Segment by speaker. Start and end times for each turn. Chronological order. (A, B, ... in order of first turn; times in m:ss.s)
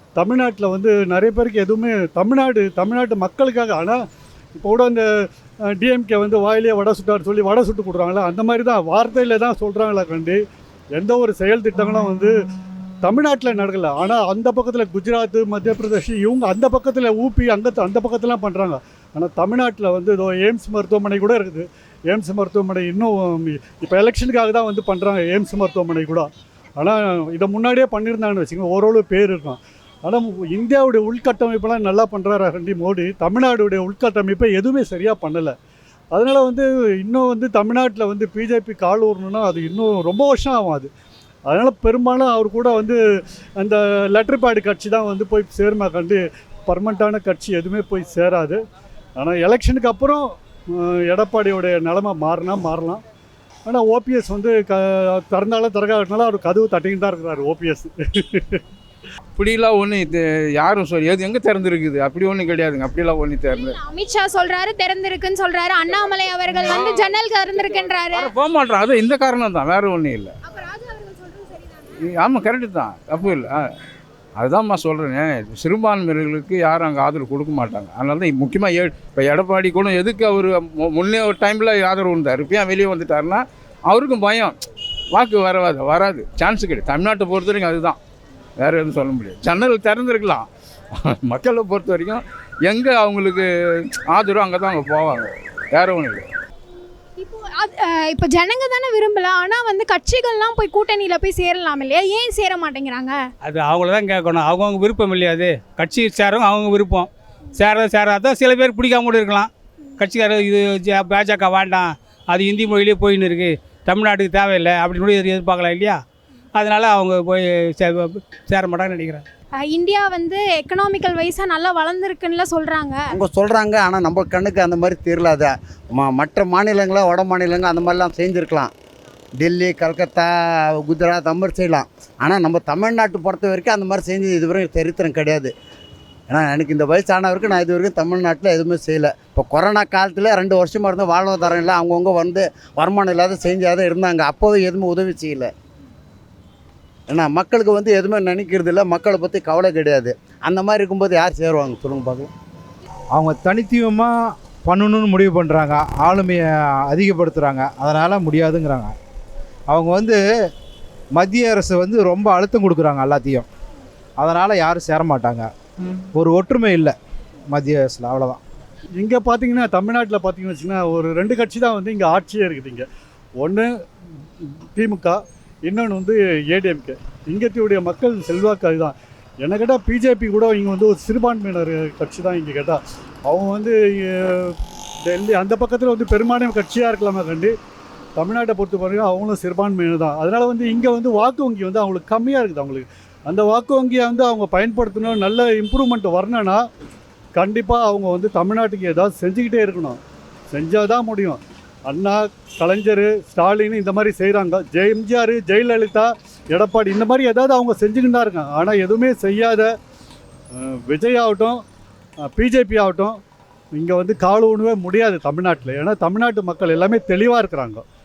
0:00.2-0:04.0 A
0:04.6-0:10.4 A
0:11.0-0:12.4 A
0:13.0-0:35.6 A
0:36.1-0:40.9 A
0:41.5-0:43.0 A
0:43.6-0:48.6 A
0:49.2-0:53.0 A
0:53.7-0:58.6 A
0:59.4-1:03.8 B
1:03.5-1:08.3 C
1:06.6-1:10.3 B
1:10.4-1:12.0 C
1:12.2-1:13.7 B
1:14.4-1:24.6 B
1:25.1-1:28.0 B
1:28.6-1:30.5 B
1:31.2-1:33.4 B
1:34.1-1:36.3 B
1:37.2-1:43.2 C
1:43.4-1:56.0 D
1:56.6-1:59.2 D
1:59.6-2:03.0 C
2:03.2-2:08.7 E
2:09.4-2:15.5 E
2:16.3-2:25.5 E
2:27.1-2:32.3 E
2:33.2-2:39.0 F
2:39.7-2:40.2 F
2:41.2-2:43.5 F
2:44.2-2:45.5 F
2:46.2-2:47.0 F
2:47.5-2:48.4 F
2:49.0-2:52.9 A
2:53.4-2:53.7 A
2:54.4-3:07.5 A
3:08.2-3:16.6 A
3:17.4-3:20.0 A
3:20.5-3:29.7 A
3:30.5-3:31.6 A
3:32.3-3:33.2 A
3:33.7-3:37.8 A